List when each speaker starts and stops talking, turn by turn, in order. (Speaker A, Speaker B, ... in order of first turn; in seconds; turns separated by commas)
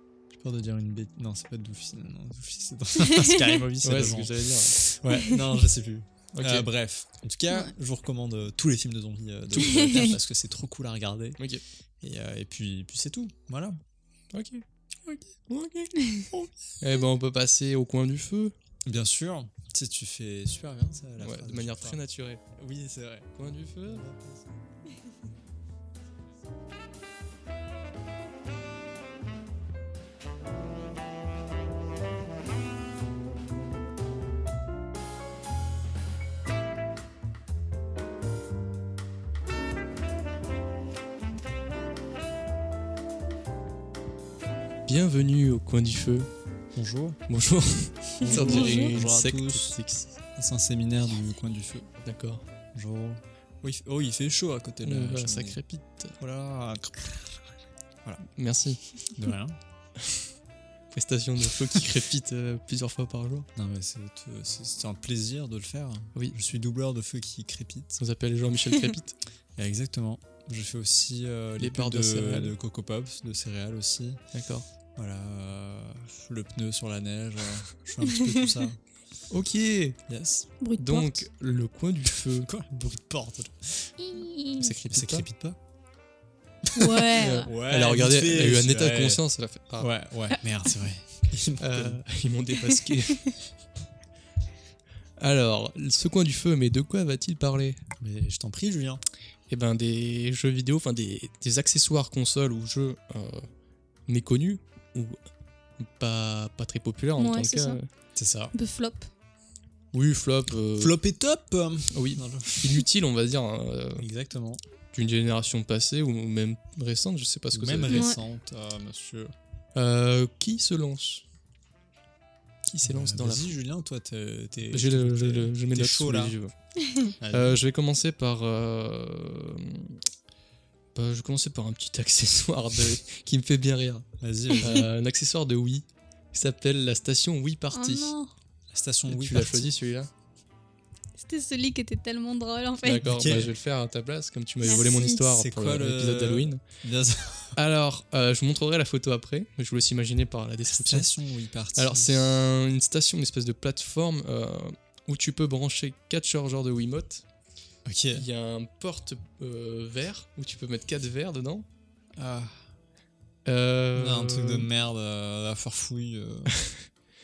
Speaker A: 0.3-11.4, Speaker B: 3.0-3.6, Speaker C: 3.8-4.8, Speaker B: 5.1-5.4, Speaker C: 6.3-6.7, Speaker B: 9.6-10.1, Speaker A: 12.0-13.8, Speaker C: 14.3-14.6, Speaker C: 15.5-18.5, Speaker B: 16.0-16.2, Speaker A: 18.9-22.0, Speaker C: 21.2-22.4, Speaker A: 22.5-24.5, Speaker C: 23.4-24.0, Speaker C: 44.9-46.3, Speaker A: 46.7-47.2, Speaker C: 47.3-50.1, Speaker B: 48.2-48.9, Speaker A: 48.2-49.7, Speaker A: 50.4-51.9, Speaker C: 52.0-52.4, Speaker A: 52.7-55.6, Speaker C: 54.8-56.2, Speaker A: 56.2-57.2, Speaker C: 58.2-58.8, Speaker A: 59.1-59.6, Speaker C: 60.0-60.2, Speaker C: 60.9-63.5, Speaker A: 63.5-68.0, Speaker C: 68.0-69.2, Speaker A: 69.6-74.2, Speaker C: 71.6-72.5, Speaker C: 74.3-74.7, Speaker A: 75.0-78.8, Speaker B: 78.0-78.5, Speaker C: 79.3-80.0, Speaker A: 80.1-80.5, Speaker B: 80.6-81.2, Speaker C: 80.8-82.5, Speaker A: 82.1-83.9, Speaker B: 84.0-84.7, Speaker C: 84.6-85.2, Speaker A: 84.9-85.6, Speaker A: 86.6-89.2, Speaker B: 86.7-87.5, Speaker C: 87.1-89.9, Speaker A: 89.8-92.0, Speaker C: 91.6-93.4, Speaker C: 95.2-97.8, Speaker A: 98.0-99.0, Speaker C: 99.5-103.5, Speaker C: 104.1-105.2, Speaker C: 105.8-107.8, Speaker B: 107.2-107.8, Speaker A: 108.1-108.5, Speaker B: 108.5-109.1, Speaker C: 109.9-110.9, Speaker A: 110.8-112.8, Speaker C: 111.9-114.1, Speaker A: 114.0-114.6, Speaker C: 114.9-118.1, Speaker A: 117.5-119.3, Speaker B: 117.9-118.2, Speaker C: 119.7-121.2, Speaker C: 122.7-123.5, Speaker A: 122.8-126.3, Speaker C: 124.7-126.5, Speaker B: 126.8-127.1, Speaker A: 127.2-127.6, Speaker C: 127.3-130.0, Speaker C: 130.9-134.0, Speaker A: 134.2-134.8, Speaker C: 134.6-138.1, Speaker B: 137.7-138.3, Speaker A: 138.7-139.7, Speaker C: 139.1-140.1, Speaker B: 141.2-143.2, Speaker C: 142.8-146.6, Speaker A: 143.0-143.5, Speaker B: 144.6-145.2, Speaker A: 145.2-147.6, Speaker C: 147.6-151.1, Speaker A: 150.7-152.2, Speaker C: 151.8-157.2, Speaker A: 157.8-158.2, Speaker C: 158.1-161.7, Speaker A: 162.2-162.5, Speaker C: 163.4-164.7, Speaker A: 163.9-166.5